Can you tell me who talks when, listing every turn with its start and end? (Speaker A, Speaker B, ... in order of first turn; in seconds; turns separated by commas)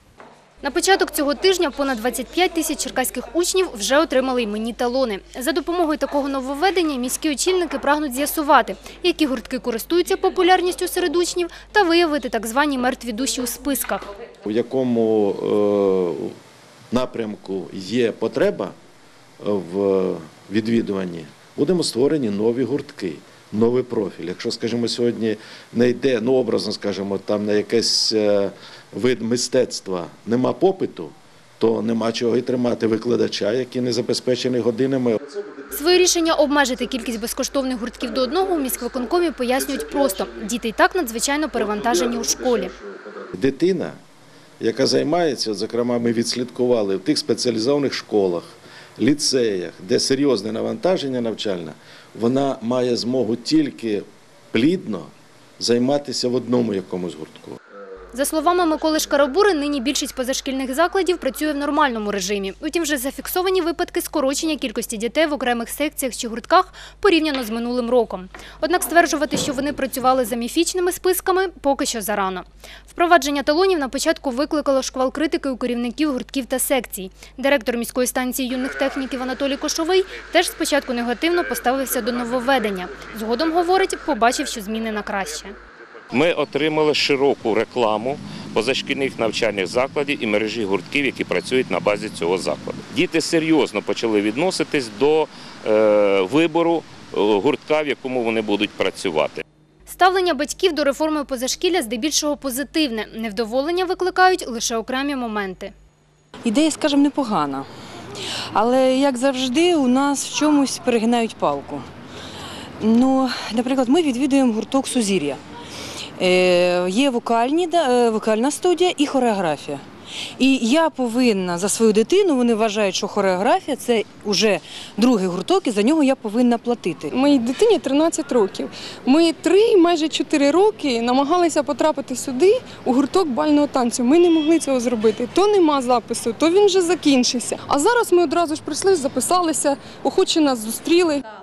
Speaker A: 0.6-14.1, Speaker B: 14.4-16.3, Speaker B: 16.9-18.7, Speaker B: 19.4-35.2, Speaker A: 35.7-42.7, Speaker B: 43.2-44.0, Speaker B: 44.6-57.6, Speaker A: 58.1-85.6, Speaker C: 86.1-99.4, Speaker A: 99.9-105.7, Speaker D: 106.5-107.6, Speaker D: 108.5-111.8, Speaker D: 112.8-115.4, Speaker D: 116.2-119.8, Speaker D: 120.4-126.9, Speaker E: 127.1-141.2